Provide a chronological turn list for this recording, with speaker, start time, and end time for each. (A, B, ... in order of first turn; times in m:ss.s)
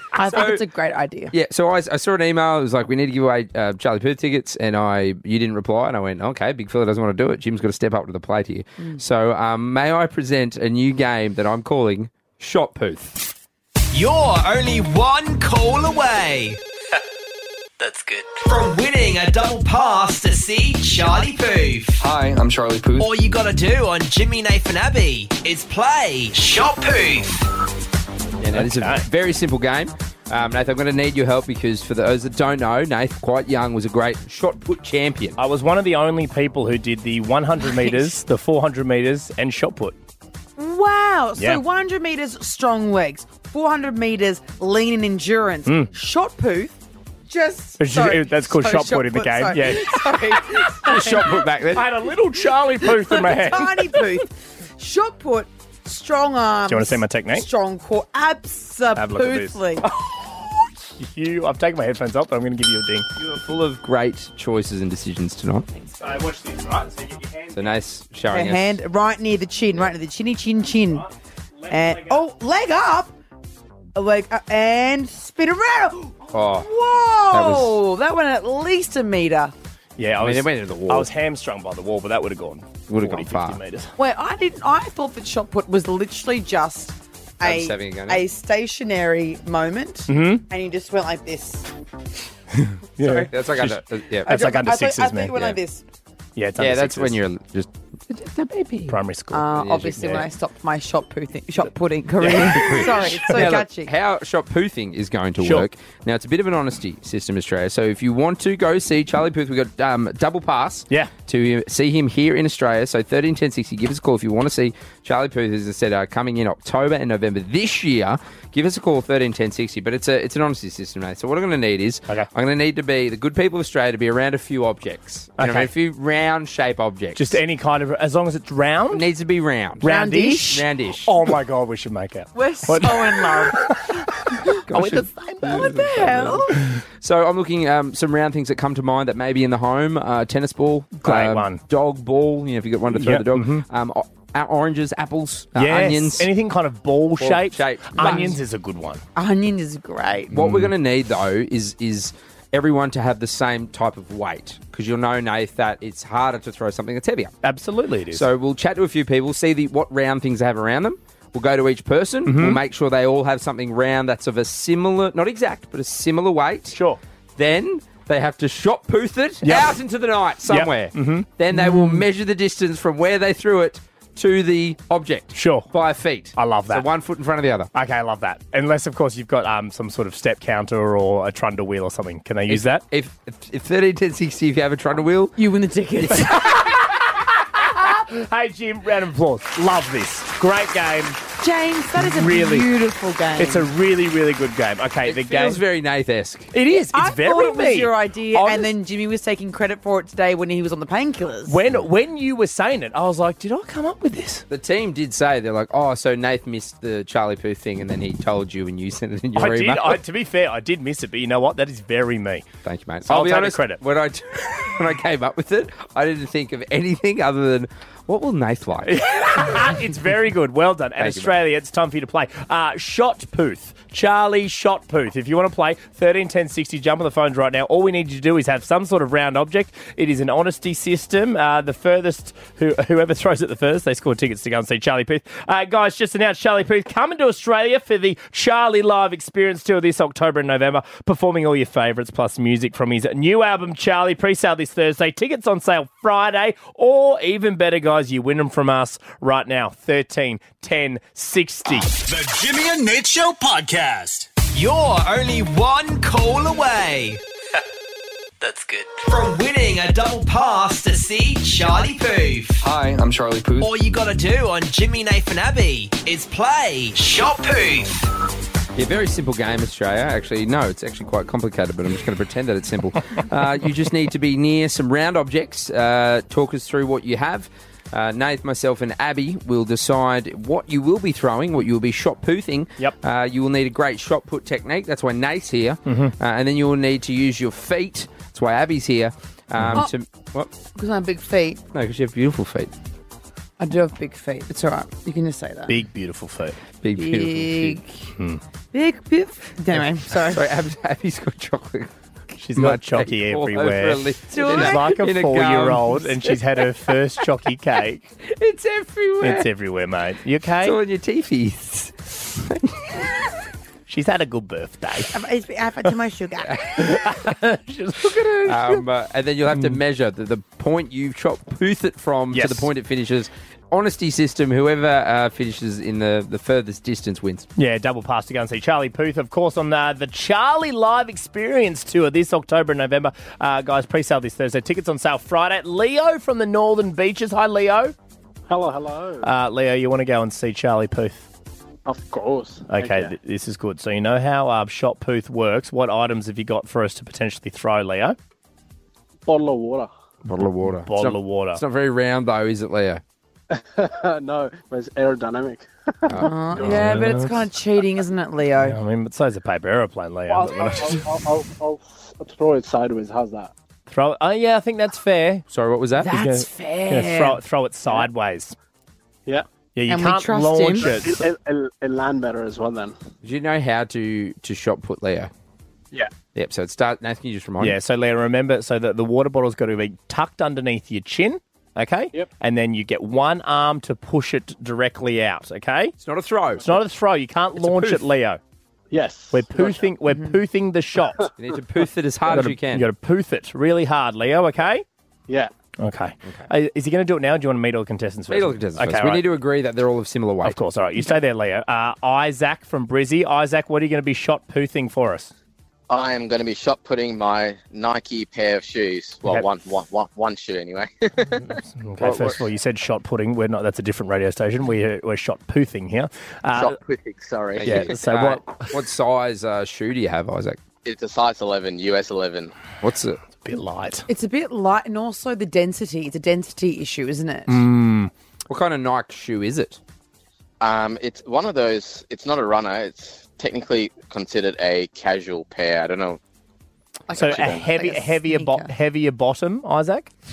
0:00.2-0:01.3 A
0:00.3-0:00.6 B
0:01.3-0:13.2 B
0:13.9-0:16.6 C
0:18.3-0:22.0 C
0:22.0-0:23.1 D
0:23.0-0:27.4 C
0:28.4-0:35.4 B
0:28.5-0:29.0 E
0:35.4-0:40.0 E
0:40.6-0:51.2 A
0:41.4-0:41.6 E
0:45.7-0:45.9 E
0:47.8-0:51.1 E
0:50.8-0:51.9 B
0:51.7-0:54.1 E
0:52.9-0:59.9 A
0:56.7-0:57.5 E
0:59.0-1:03.1 E
1:03.2-1:05.7 B
1:06.0-1:07.7 E
1:07.5-1:08.8 B
1:08.3-1:11.1 A
1:10.9-1:12.2 E
1:11.7-1:13.2 A
1:14.0-1:19.5 A
1:16.3-1:16.7 B
1:17.3-1:17.8 B
1:20.0-1:23.9 E
1:20.2-1:21.1 B
1:22.9-1:23.6 B
1:24.0-1:31.7 A
1:27.4-1:28.2 B
1:30.1-1:30.4 E
1:32.6-1:35.6 E
1:33.0-1:33.3 A
1:33.3-1:34.3 B
1:34.3-1:35.8 A
1:36.4-1:37.2 E
1:36.6-1:39.0 B
1:38.9-1:40.2 E
1:39.3-1:43.9 A
1:39.5-1:40.2 B
1:42.2-1:43.5 E
1:42.4-2:07.4 B
1:45.4-1:45.7 E
2:05.4-2:05.7 E
2:07.2-2:09.0 E
2:08.9-2:09.8 B
2:09.8-2:15.8 E
2:09.8-2:10.6 A
2:10.5-2:11.1 B
2:12.3-2:14.6 A
2:14.7-2:26.3 B
2:15.4-2:16.6 A
2:21.0-2:21.6 E
2:22.9-2:23.6 E
2:25.6-2:29.0 E
2:27.2-2:28.4 B
2:28.0-2:28.3 A
2:29.2-2:30.3 A
2:30.3-2:37.4 B
2:30.3-2:30.7 E
2:37.4-2:38.3 E
2:38.1-2:46.8 B
2:42.2-2:42.6 E
2:46.7-2:47.0 E
2:47.4-2:57.7 B
2:49.4-2:49.8 E
2:50.5-2:51.3 E
2:51.5-2:52.0 A
2:55.3-2:55.7 E
2:56.4-2:56.9 E
2:57.7-3:02.8 E
3:02.5-3:05.4 B
3:05.4-3:06.4 A
3:06.0-3:06.5 B
3:06.2-3:11.2 E
3:11.4-3:13.7 A
3:12.0-3:12.7 E
3:13.4-3:15.6 E
3:15.0-3:16.5 B
3:16.5-3:18.7 E
3:16.7-3:21.6 A
3:21.5-3:24.4 E
3:24.5-3:30.0 B
3:29.4-3:32.5 E
3:32.6-3:39.0 B
3:33.1-3:33.8 E
3:38.8-4:11.9 E
3:41.0-3:41.3 B
4:12.1-4:14.3 F
4:14.4-4:17.2 C
4:18.4-4:22.6 C
4:22.6-4:23.7 D
4:23.6-4:28.0 C
4:28.8-4:50.5 B
4:45.9-4:46.1 E
4:49.6-4:49.9 E
4:50.8-4:51.6 A
4:51.7-4:52.7 B
4:53.6-4:55.8 A
4:55.7-4:56.6 E
4:56.8-4:57.8 B
4:57.0-4:57.9 A
4:58.2-4:58.4 E
4:58.7-5:00.4 A
5:00.2-5:01.9 B
5:02.4-5:08.1 E
5:02.6-5:06.6 B
5:04.3-5:05.0 A
5:08.2-5:09.5 B
5:09.2-5:10.8 E
5:10.6-5:13.3 B
5:13.9-5:15.1 E
5:15.1-5:16.8 A
5:16.7-5:18.8 E
5:18.4-5:27.5 B
5:19.5-5:19.8 E
5:22.3-5:22.7 E
5:27.6-5:38.0 E
5:38.5-5:39.3 G
5:39.2-5:41.3 E
5:41.9-5:43.1 G
5:42.7-5:48.2 E
5:49.3-5:49.9 G
5:50.2-5:53.0 B
5:50.6-5:51.6 E
5:53.5-5:57.2 G
5:56.2-5:58.8 A
5:56.6-5:57.5 E
5:58.6-6:01.0 E
6:00.3-6:03.5 G
6:03.9-6:05.4 E
6:05.5-6:06.1 B
6:06.0-6:07.4 A
6:06.1-6:08.6 E
6:09.8-6:11.2 E
6:09.9-6:10.9 A
6:10.8-6:13.0 G
6:13.2-6:15.3 B
6:16.4-6:17.8 B
6:17.6-6:25.9 E
6:26.0-6:26.7 B
6:26.6-6:28.4 E
6:27.6-6:28.0 B
6:28.9-6:29.9 G
6:29.3-6:31.3 E
6:31.4-6:32.9 B
6:32.3-6:34.8 E
6:35.8-6:39.2 E
6:38.3-6:40.6 B
6:40.4-6:45.3 E
6:45.9-6:51.5 H
6:51.5-6:56.8 E
6:56.5-6:57.9 H
6:57.6-7:00.6 B
6:57.6-6:58.8 E
7:00.8-7:02.5 H
7:02.8-7:03.2 B
7:03.4-7:04.1 E
7:04.1-7:07.6 A
7:07.5-7:08.1 E
7:08.5-7:09.8 B
7:10.6-7:16.2 H
7:17.1-7:18.7 A
7:17.1-7:20.1 E
7:17.2-7:17.6 H